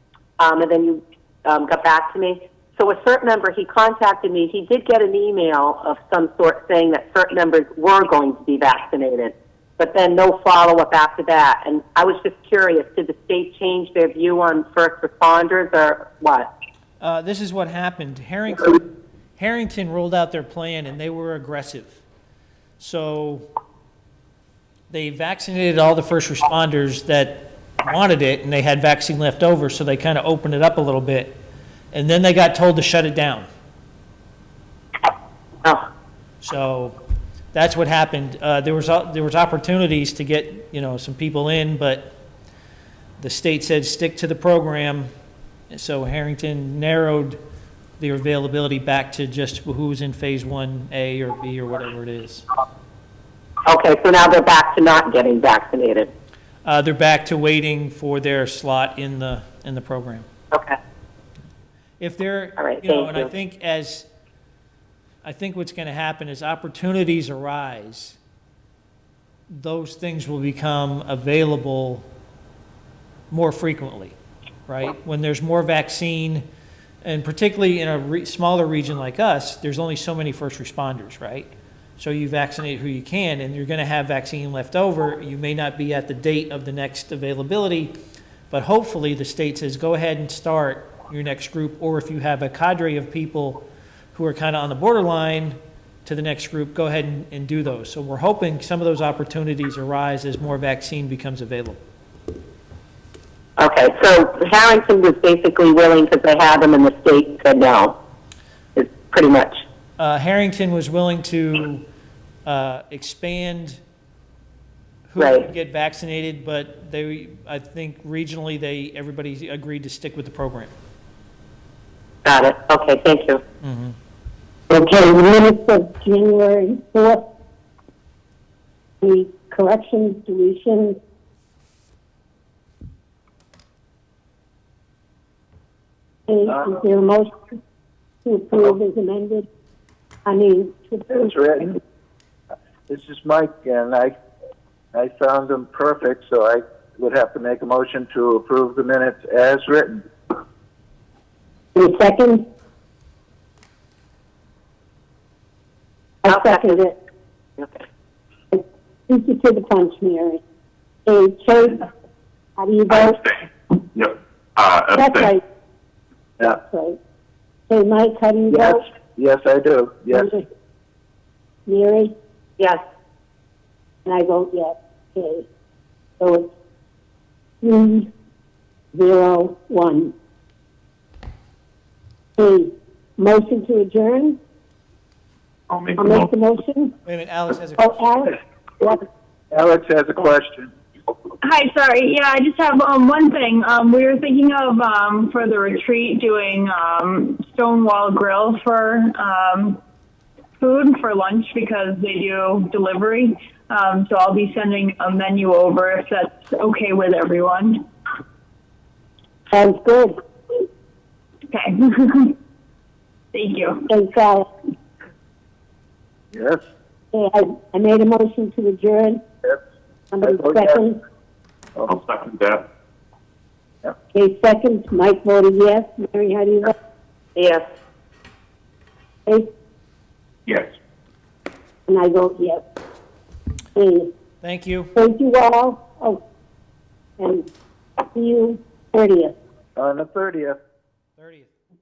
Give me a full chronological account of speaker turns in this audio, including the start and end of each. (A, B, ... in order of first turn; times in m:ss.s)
0:00.4-0:16.5 A
0:17.0-0:18.8 B
0:19.4-0:22.0 B
0:22.8-0:23.5 B
0:24.9-0:31.4 B
0:31.9-0:33.5 B
0:36.4-0:37.0 B
0:37.5-0:42.2 B
0:43.2-0:45.1 B
0:45.7-0:47.4 B
0:48.0-0:52.5 B
0:53.7-0:56.1 A
0:56.6-1:00.3 B
1:00.5-1:00.8 A
1:02.0-1:04.1 B
1:02.6-1:03.3 A
1:05.2-1:08.2 B
1:09.5-1:12.1 B
1:13.3-1:16.4 B
1:17.0-1:27.9 B
1:28.5-1:41.8 B
1:43.6-1:48.0 A
1:48.8-1:49.6 A
1:50.0-1:51.8 B
1:52.5-1:53.8 B
1:55.1-2:00.7 B
1:55.2-1:55.5 A
2:02.2-2:03.4 A
2:03.6-2:04.0 B
2:04.7-2:07.3 C
2:09.0-2:11.0 C
2:16.3-2:17.6 C
2:18.2-2:19.5 C
2:20.3-2:21.1 C
2:21.1-2:21.8 D
2:22.9-2:24.2 D
2:24.9-2:30.0 D
2:31.8-2:32.5 C
2:36.2-2:37.0 C
2:36.3-2:36.8 A
2:38.5-2:40.4 C
2:41.1-2:41.9 C
2:42.6-2:43.2 C
2:43.9-2:45.3 E
2:45.0-2:45.4 C
2:46.4-2:47.0 C
2:47.7-2:48.8 C
2:48.5-2:50.3 D
2:50.1-2:50.4 C
2:51.7-2:52.1 C
2:54.1-2:55.5 C
2:56.2-2:56.5 C
2:57.6-2:58.1 C
2:58.9-3:00.1 C
3:02.4-3:04.4 C
3:05.7-3:06.3 E
3:06.0-3:07.0 C
3:07.0-3:08.0 B
3:07.8-3:09.0 C
3:09.5-3:10.7 D
3:11.4-3:19.8 F
3:20.6-3:27.9 F
3:29.5-3:30.2 C
3:31.5-3:32.4 F
3:33.3-3:33.9 F
3:33.9-3:34.5 C
3:36.3-3:36.6 D
3:37.1-3:39.2 C
3:40.1-3:41.0 C
3:40.2-3:40.8 D
3:41.9-3:42.7 E
3:44.1-3:46.7 C
3:47.4-3:47.7 A
3:50.5-3:50.7 E
3:51.9-3:52.7 C
3:53.8-3:54.1 C
3:54.4-3:54.9 B
3:55.0-3:56.2 C
3:57.2-3:59.4 C
3:59.8-4:00.6 D
4:01.2-4:01.5 B